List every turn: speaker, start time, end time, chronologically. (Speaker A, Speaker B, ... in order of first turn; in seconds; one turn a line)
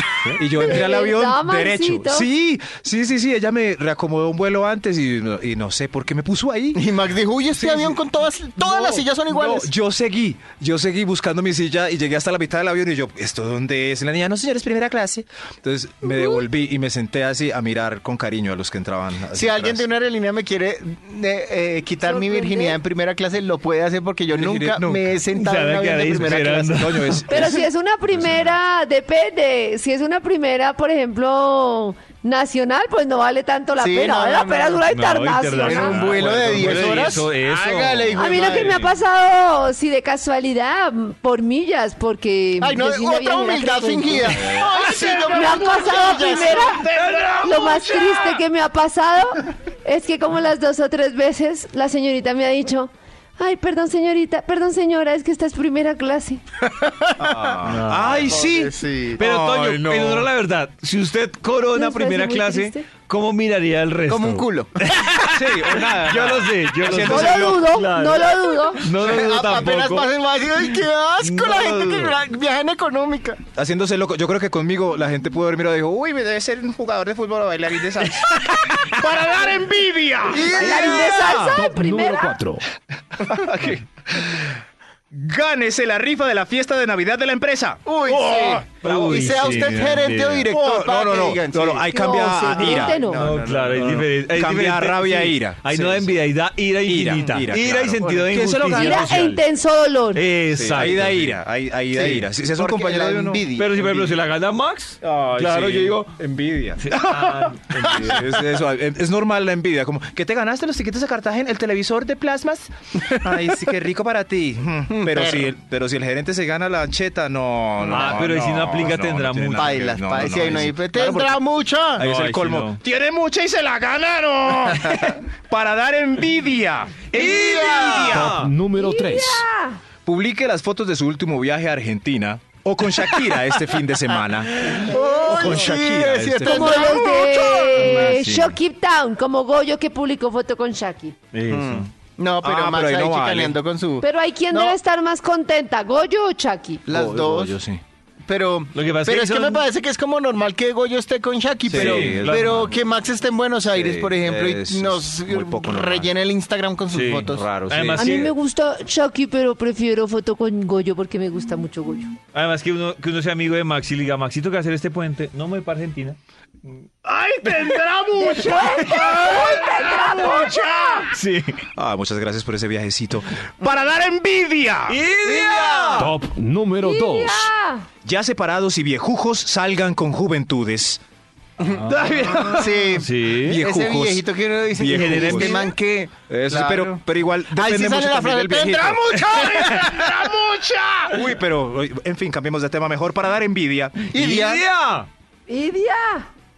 Speaker A: 0.4-6.8
Speaker B: 0.6-2.3
Speaker C: 6.7-9.7
Speaker A: 7.5-8.0
Speaker A: 8.6-19.9
Speaker C: 19.3-27.2
Speaker B: 22.0-22.8
Speaker A: 24.3-25.2
Speaker D: 25.3-27.2
Speaker A: 26.1-28.6
Speaker B: 27.3-36.3
Speaker C: 33.8-34.9
Speaker D: 34.9-38.8
Speaker C: 35.6-38.8
Speaker A: 36.5-37.1
Speaker B: 38.1-44.5
Speaker C: 42.6-46.7
Speaker A: 44.3-47.8
Speaker B: 45.3-56.4
Speaker D: 46.8-48.4
Speaker C: 56.8-57.4
Speaker A: 57.2-60.3
Speaker D: 57.6-70.1
Speaker C: 58.3-59.2
Speaker B: 61.7-62.9
Speaker C: 64.1-64.8
Speaker A: 65.3-67.7
Speaker B: 67.0-68.9
Speaker C: 69.0-73.4
Speaker A: 69.0-69.7
Speaker D: 70.7-72.2
Speaker A: 73.5-81.4
Speaker C: 80.3-81.3
Speaker B: 80.5-82.4
Speaker E: 80.5-82.7
Speaker A: 83.1-84.6
Speaker A: 85.1-89.9
Speaker C: 87.9-93.7
Speaker D: 88.8-90.5
Speaker A: 90.5-96.2
Speaker B: 91.9-93.3
Speaker D: 93.1-99.4
Speaker A: 96.8-99.1
Speaker B: 98.7-100.2
Speaker D: 100.1-101.4
Speaker A: 100.5-104.2
Speaker D: 101.9-102.3
Speaker C: 102.0-103.7
Speaker D: 103.5-106.2
Speaker A: 105.0-121.4
Speaker D: 106.8-108.2
Speaker C: 114.9-115.5
Speaker D: 117.8-120.5
Speaker C: 119.6-122.0
Speaker A: 122.0-128.4
Speaker D: 122.0-122.8
Speaker D: 127.1-128.5
Speaker C: 127.2-128.2
Speaker E: 128.0-129.5
Speaker B: 128.8-129.8
Speaker A: 130.1-134.7
Speaker C: 134.6-138.2
Speaker D: 134.7-134.9
Speaker A: 135.3-137.0
Speaker B: 136.4-141.2
Speaker D: 137.7-138.6
Speaker D: 141.3-141.9
Speaker C: 141.5-144.8
Speaker A: 142.4-143.6
Speaker B: 144.0-146.8
Speaker C: 146.9-147.6
Speaker A: 146.9-147.8
Speaker C: 148.3-157.5
Speaker D: 148.7-149.7
Speaker A: 151.7-152.8
Speaker D: 151.7-152.7
Speaker A: 153.7-156.1
Speaker D: 156.9-158.3
Speaker A: 157.3-158.3
Speaker B: 158.0-162.2
Speaker D: 162.3-166.7
Speaker A: 167.1-171.1
Speaker D: 167.4-171.6
Speaker B: 168.2-171.0
Speaker A: 171.8-175.0
Speaker D: 174.9-176.2
Speaker C: 175.3-176.1
Speaker E: 176.0-177.5
Speaker B: 176.8-177.9
Speaker A: 178.0-181.0
Speaker A: 181.7-185.6
Speaker D: 181.7-183.6
Speaker C: 182.5-187.0
Speaker D: 184.8-185.7
Speaker A: 186.3-194.1
Speaker C: 187.5-191.0
Speaker C: 194.1-194.7
Speaker D: 194.1-195.1
Speaker B: 195.5-196.3